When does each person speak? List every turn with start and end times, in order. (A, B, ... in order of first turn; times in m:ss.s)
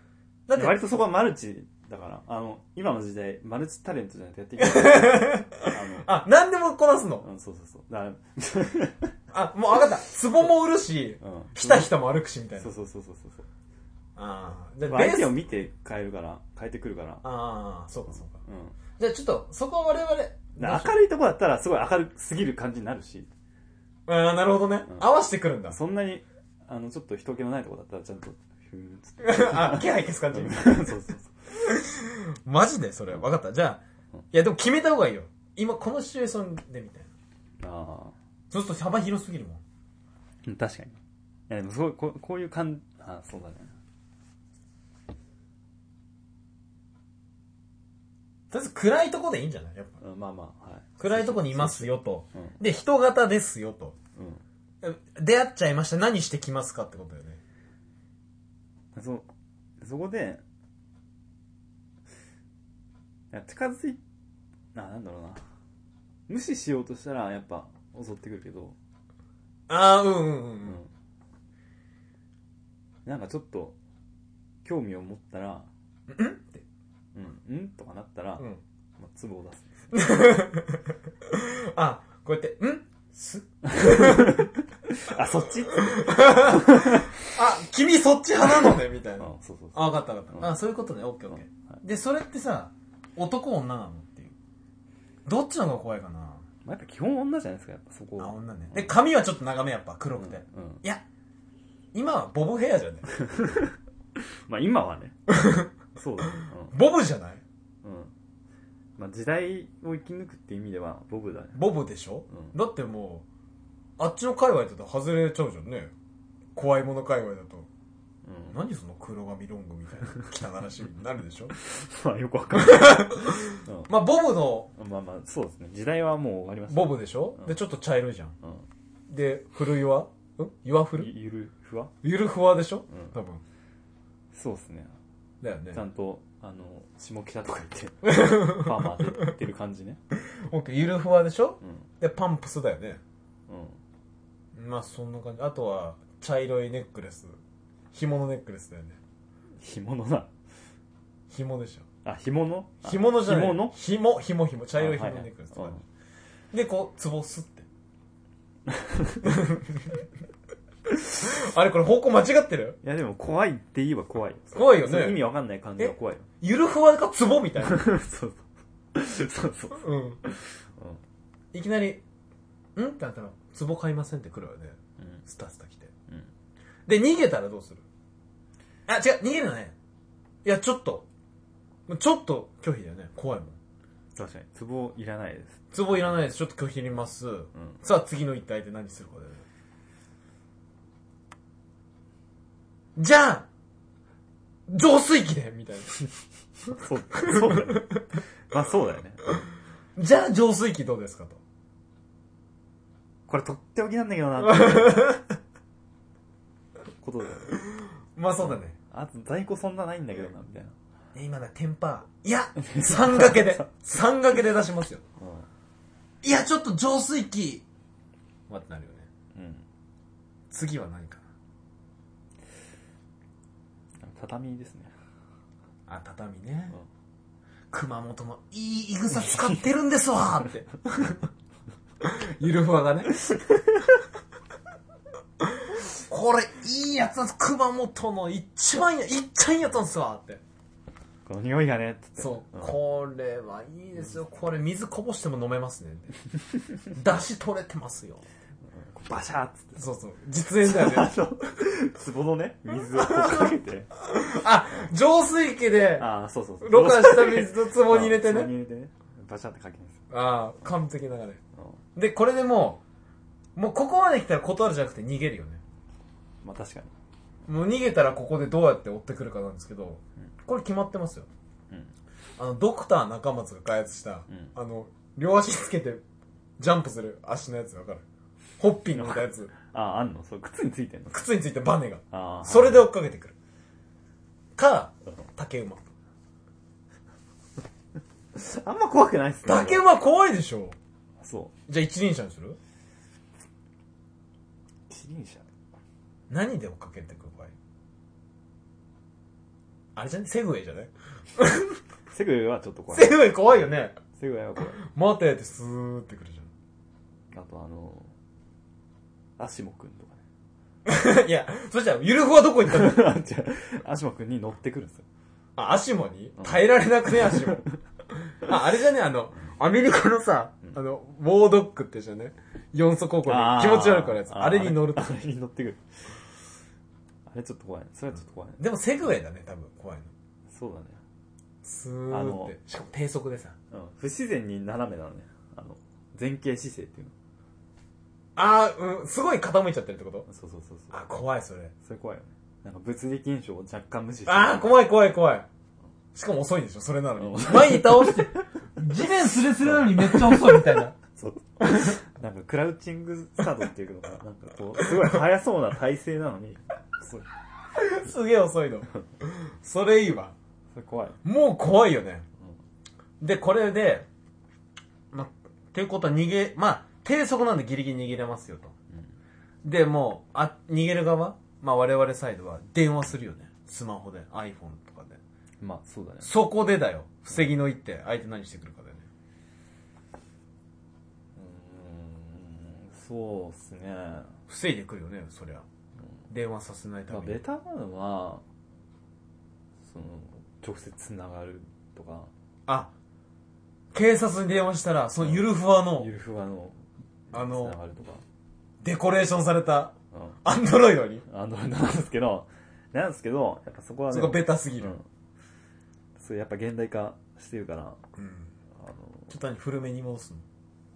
0:00.5-0:00.8 A
0:00.5-0:06.1 B
0:04.6-0:07.3 A
0:07.2-0:09.2 B
0:09.3-0:12.7 A
0:11.2-0:11.9 B
0:12.6-0:13.5 B
0:14.2-0:15.4 A
0:14.9-0:17.2 B
0:17.2-0:18.4 A
0:18.3-0:18.8 B
0:19.0-0:20.9 A
0:20.6-0:23.3 B
0:24.1-0:25.8 A
0:25.7-0:31.5 B
0:29.2-0:31.0 A
0:31.6-0:33.8 A
0:34.3-0:37.1 A
0:37.6-0:38.2 B
0:38.5-0:39.6 A
0:40.4-0:43.8 B
0:48.5-0:50.0 A
0:50.0-0:52.6 B
0:51.0-0:54.0 A
0:54.2-0:54.4 B
0:54.8-0:57.4 A
0:59.0-0:59.3 B
0:59.8-1:00.4 B
1:03.3-1:04.0 B
1:04.8-1:05.4 B
1:06.3-1:08.8 B
1:09.7-1:10.8 A
1:10.6-1:10.9 B
1:13.1-1:13.8 B
1:14.6-1:15.7 B
1:16.1-1:16.6 A
1:17.2-1:19.7 B
1:19.9-1:24.5 A
1:23.6-1:27.3 B
1:25.7-1:34.3 A
1:29.2-1:30.6 B
1:35.3-1:36.4 A
1:36.6-1:39.0 B
1:38.2-1:41.0 A
1:40.2-1:40.8 B
1:41.9-1:43.0 A
1:43.1-1:45.2 B
1:45.3-1:45.7 A
1:46.0-1:46.8 B
1:46.7-1:47.4 A
1:47.8-1:48.1 B
1:49.0-1:51.6 B
1:51.6-1:53.3 A
1:52.3-1:52.5 B
1:54.0-1:55.9 A
1:56.6-1:57.7 A
1:58.2-1:58.6 B
1:58.5-2:01.5 A
2:01.5-2:03.9 B
2:02.6-2:04.7 A
2:04.8-2:07.6 B
2:06.7-2:08.3 A
2:09.1-2:11.1 A
2:11.0-2:11.9 B
2:12.0-2:13.4 A
2:12.9-2:13.2 B
2:14.3-2:14.9 B
2:15.4-2:15.8 A
2:15.7-2:20.0 B
2:18.0-2:19.0 A
2:20.3-2:23.0 A
2:21.6-2:21.9 B
2:23.5-2:23.8 B
2:24.6-2:27.4 A
2:27.9-2:29.0 A
2:29.6-2:30.3 B
2:31.3-2:31.8 A
2:32.0-2:33.8 B
2:32.8-2:35.8 A
2:34.8-2:35.8 B
2:36.5-2:37.7 A
2:38.7-2:39.3 B
2:39.2-2:40.0 A
2:41.1-2:42.8 A
2:42.8-2:46.3 B
2:44.5-2:45.3 A
2:45.8-2:47.9 A
2:47.6-2:51.0 B
2:49.8-2:50.2 A
2:51.5-2:52.0 A
2:52.8-2:55.9 A
2:55.0-2:55.2 B
2:56.9-2:57.8 A
2:58.9-2:59.8 A
3:00.4-3:01.1 A
3:01.9-3:03.6 A
3:04.2-3:05.6 B
3:05.7-3:09.4 A
3:13.0-3:13.5 A
3:14.7-3:16.0 A
3:16.7-3:19.4 B
3:17.2-3:18.0 A
3:20.0-3:21.4 A
3:23.3-3:25.2 B
3:24.4-3:25.2 A
3:27.0-3:27.6 B
3:28.2-3:28.8 A
3:28.4-3:30.8 B
3:31.1-3:35.0 A
3:32.6-3:33.7 B
3:35.2-3:35.5 B
3:36.2-3:37.6 A
3:38.5-3:39.1 A
3:39.3-3:39.6 B
3:40.5-3:41.2 A
3:44.0-3:44.9 B
3:45.9-3:46.8 A
3:47.7-3:51.2 A
3:52.0-3:53.2 A
3:53.3-3:53.8 B
3:55.4-4:00.4 A
4:01.3-4:02.8 B
4:02.2-4:06.1 A
4:06.9-4:08.2 A
4:08.7-4:09.8 B
4:09.8-4:11.1 A
4:10.6-4:13.9 B
4:12.9-4:16.1 A
4:16.0-4:20.0 B
4:16.6-4:18.5 A
4:20.1-4:21.4 A
4:22.0-4:22.8 A
4:23.6-4:25.6 A
4:26.4-4:26.9 B
4:27.5-4:31.3 A
4:32.4-4:36.0 A
4:36.6-4:38.0 A
4:38.6-4:39.5 A
4:38.9-4:41.3 B
4:41.1-4:43.3 A
4:42.1-4:42.9 B
4:44.6-4:45.8 A
4:48.3-4:49.9 B
4:49.4-4:50.8 A
4:51.2-4:51.5 B
4:51.7-4:52.6 A
4:54.9-4:55.5 B
4:56.3-4:57.5 A
5:00.0-5:01.8 A
5:02.1-5:03.3 B
5:02.9-5:04.0 A
5:04.1-5:04.8 B
5:04.8-5:06.5 A
5:07.3-5:08.1 B
5:09.4-5:10.2 B
5:10.8-5:13.2 A
5:12.7-5:15.0 B
5:15.6-5:17.6 A
5:16.4-5:17.8 B
5:18.3-5:25.2 A
5:23.3-5:26.2 B
5:27.3-5:28.6 B
5:28.6-5:30.1 A
5:30.5-5:31.0 B
5:31.6-5:33.6 A
5:32.1-5:32.6 B
5:33.7-5:37.1 B
5:38.4-5:40.3 A
5:40.3-5:41.2 B
5:40.9-5:41.7 A
5:41.8-5:44.8 B
5:44.3-5:45.5 A
5:46.1-5:50.9 A
5:47.2-5:48.4 B
5:49.6-5:57.3 B
5:51.7-5:52.0 A
5:57.8-6:00.4 A
6:00.7-6:01.2 B
6:01.2-6:02.2 A
6:03.2-6:04.1 A
6:05.1-6:08.7 A
6:09.6-6:15.2 A
6:15.6-6:16.3 B
6:16.2-6:19.1 A
6:21.4-6:24.4 B
6:24.5-6:25.6 A
6:26.3-6:27.4 A
6:27.1-6:28.4 B
6:29.9-6:32.3 B
6:32.7-6:32.9 A
6:33.9-6:36.1 A
6:35.2-6:38.2 B
6:37.3-6:37.8 A
6:38.8-6:41.2 A
6:40.1-6:40.4 B
6:41.3-6:45.1 B
6:44.1-6:45.0 A
6:46.2-6:48.0 B
6:48.2-6:48.5 A
6:48.8-6:49.3 B
6:49.3-6:50.4 A